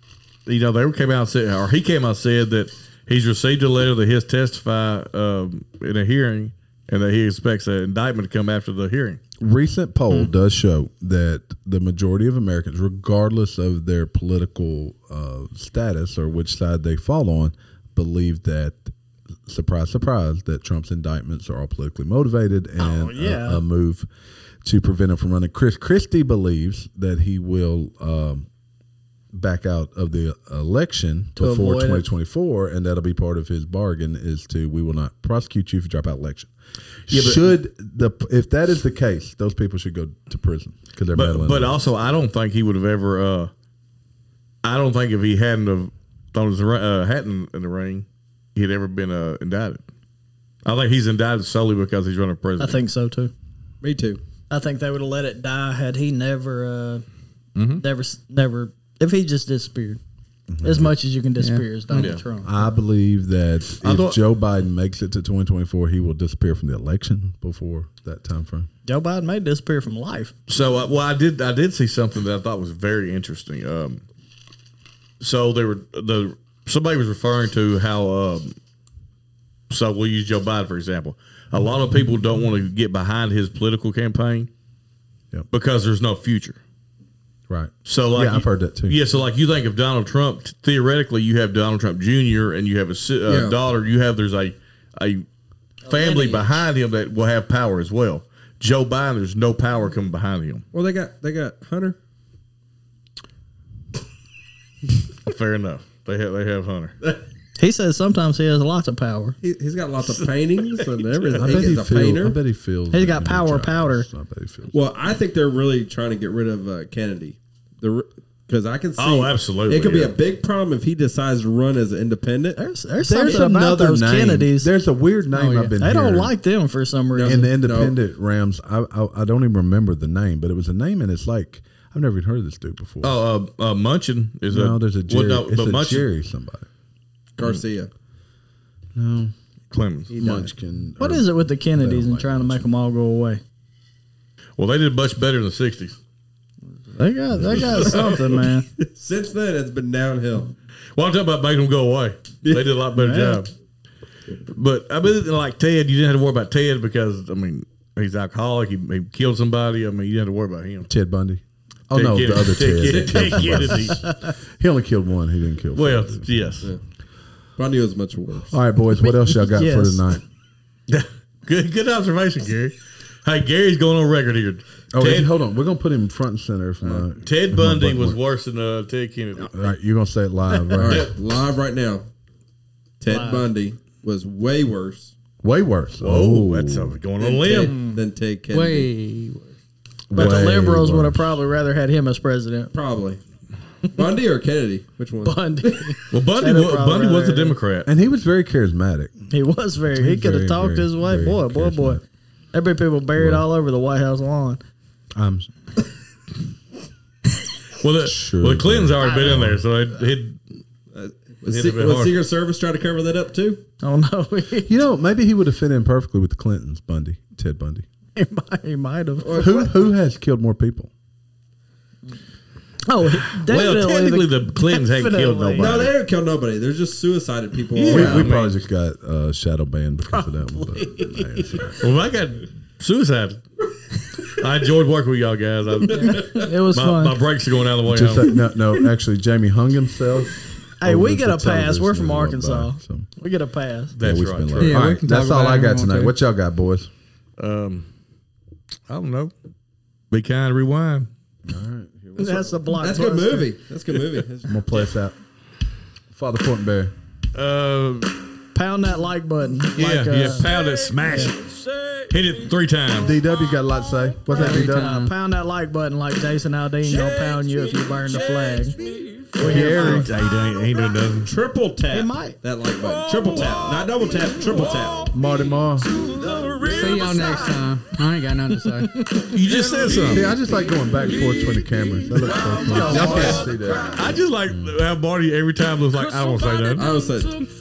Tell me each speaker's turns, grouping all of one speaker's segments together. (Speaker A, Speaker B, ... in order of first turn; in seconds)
Speaker A: 0.5-9.2, 37.1-37.5, 41.1-43.5, 44.6-49.8, 50.6-52.8, 57.5-57.8, 61.9-62.2, 63.8-64.2, 70.5-74.0, 75.2-78.5, 79.7-84.5, 85.5-86.6, 87.8-95.2, 95.9-100.6, 105.2-106.9, 110.0-111.6, 119.0-120.1, 133.0-136.1, 139.7-140.1, 144.6-146.0, 147.5-148.2, 150.9-153.5, 154.5-160.9, 161.9-164.0, 165.7-166.7, 170.9-175.3, 177.2-179.6, 186.0-187.7, 196.1-197.9, 207.8-210.4, 211.5-212.1, 223.2-225.9, 227.7-228.6, 231.8-233.4, 234.2-238.3, 243.9-244.8, 247.4-247.9, 248.9-249.3, 250.1-251.1, 257.3-258.1, 259.8-261.4, 262.1-263.1, 269.5-271.3, 279.3-280.2, 283.9-286.9
Speaker B: 9.4-18.9, 19.4-24.1, 24.6-28.5, 29.3-36.5, 37.1-41.8, 60.5-61.0, 62.4-68.7, 87.5-89.0, 111.4-114.7, 123.0-126.3, 127.2-133.2, 134.5-136.7, 138.9-139.3, 140.2-142.6, 160.9-164.0, 164.6-166.3, 168.5-170.2, 174.9-178.2, 179.5-181.1, 185.4-186.9, 190.1-191.4, 197.8-199.1, 199.9-202.0, 203.2-203.4, 205.2-205.5, 208.0-209.6, 214.7-217.8, 219.3-220.9, 227.9-231.8, 237.9-243.1, 244.0-246.9, 251.4-252.6, 254.5-255.2, 256.1-256.9, 263.0-265.0, 269.4-270.1, 275.1-275.9, 280.1-284.7
Speaker C: 22.8-23.6, 31.3-32.0, 52.6-53.3, 54.5-57.0, 57.8-60.0, 60.6-62.5, 68.8-70.3, 95.8-96.5, 107.6-109.4, 112.9-114.1, 122.5-124.7, 125.8-127.5, 141.0-143.4, 146.9-148.7, 152.9-153.4, 163.8-164.2, 169.0-170.1, 183.1-183.4, 187.7-188.0, 190.1-192.7, 195.2-197.6, 199.3-202.0, 202.5-204.6, 209.0-209.4, 213.8-214.8, 218.1-219.5, 222.9-225.8, 230.1-231.7, 235.9-237.2, 240.8-243.9, 252.2-253.5, 258.5-260.5, 261.1-261.3, 264.3-268.8, 269.4-270.1, 271.9-272.4
Speaker D: 53.8-54.2, 93.3-93.6, 100.7-102.0, 109.4-112.4, 114.7-122.6, 127.1-128.0, 137.3-137.9, 140.1-140.5, 147.8-148.1, 148.8-150.5, 152.4-152.8, 162.9-163.6, 167.6-168.6, 180.7-182.1, 183.0-185.1, 187.2-188.9, 192.7-193.2, 193.9-195.9, 210.9-213.6, 219.2-219.7, 225.6-228.3, 235.9-236.5, 252.7-254.5, 271.2-275.1, 286.7-287.4
Speaker E: 61.4-61.6, 125.3-125.8, 188.5-189.5, 244.6-246.1, 264.3-265.1, 276.6-279.1